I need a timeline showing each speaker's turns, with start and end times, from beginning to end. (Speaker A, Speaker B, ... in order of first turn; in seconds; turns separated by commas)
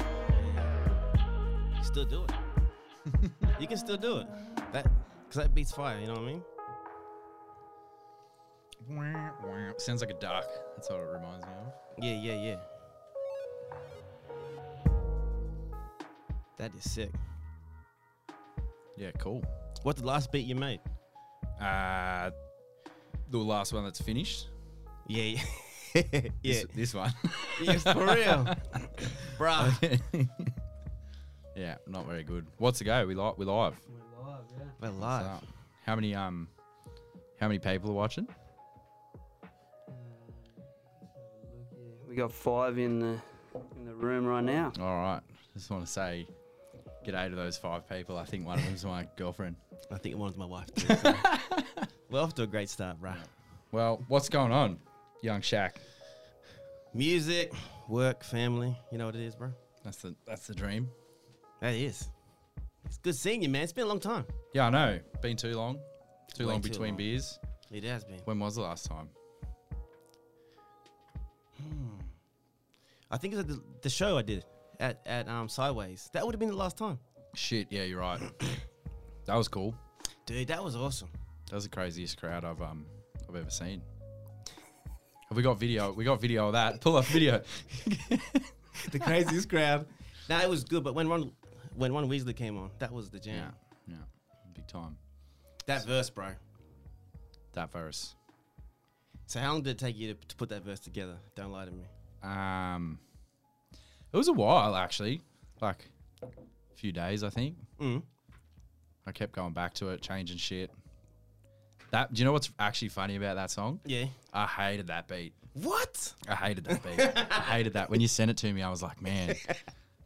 Speaker A: 0.3-0.8, Speaker A: 1.8-2.4, Speaker B: 3.1-3.5, Speaker A: 3.6-6.5, Speaker B: 8.8-11.8, Speaker A: 11.9-12.7, Speaker A: 16.6-17.2, Speaker B: 18.9-19.5, Speaker A: 19.8-20.8, Speaker B: 21.6-22.3, Speaker B: 23.2-24.5, Speaker A: 25.0-26.8, Speaker B: 26.4-30.6, Speaker A: 27.4-29.8, Speaker B: 31.5-33.8, Speaker C: 33.9-34.8, Speaker A: 34.8-35.4, Speaker B: 35.0-36.5, Speaker B: 37.4-38.3, Speaker C: 39.9-44.8, Speaker B: 44.7-46.3, Speaker B: 47.0-49.6, Speaker A: 49.9-51.4, Speaker B: 50.8-51.9, Speaker A: 52.1-53.3, Speaker B: 53.1-55.8, Speaker A: 56.9-59.6, Speaker B: 59.8-60.9, Speaker A: 61.6-62.1, Speaker A: 62.9-64.3, Speaker B: 64.5-67.4, Speaker A: 66.3-67.1, Speaker A: 67.7-68.3, Speaker B: 68.2-69.1, Speaker A: 71.6-72.2, Speaker A: 73.1-77.0, Speaker B: 77.3-78.3, Speaker B: 79.2-79.8, Speaker A: 80.2-81.1, Speaker B: 81.5-83.9, Speaker B: 85.3-89.0, Speaker A: 88.7-93.5, Speaker B: 93.3-95.0, Speaker A: 95.7-96.4, Speaker B: 97.5-98.2, Speaker A: 99.3-101.9, Speaker B: 102.2-103.0, Speaker B: 104.1-105.9, Speaker B: 106.7-107.7, Speaker A: 107.8-108.1, Speaker B: 109.0-110.7, Speaker B: 111.9-115.3, Speaker A: 113.8-114.2, Speaker A: 115.5-117.6, Speaker B: 116.2-119.5, Speaker A: 119.3-119.6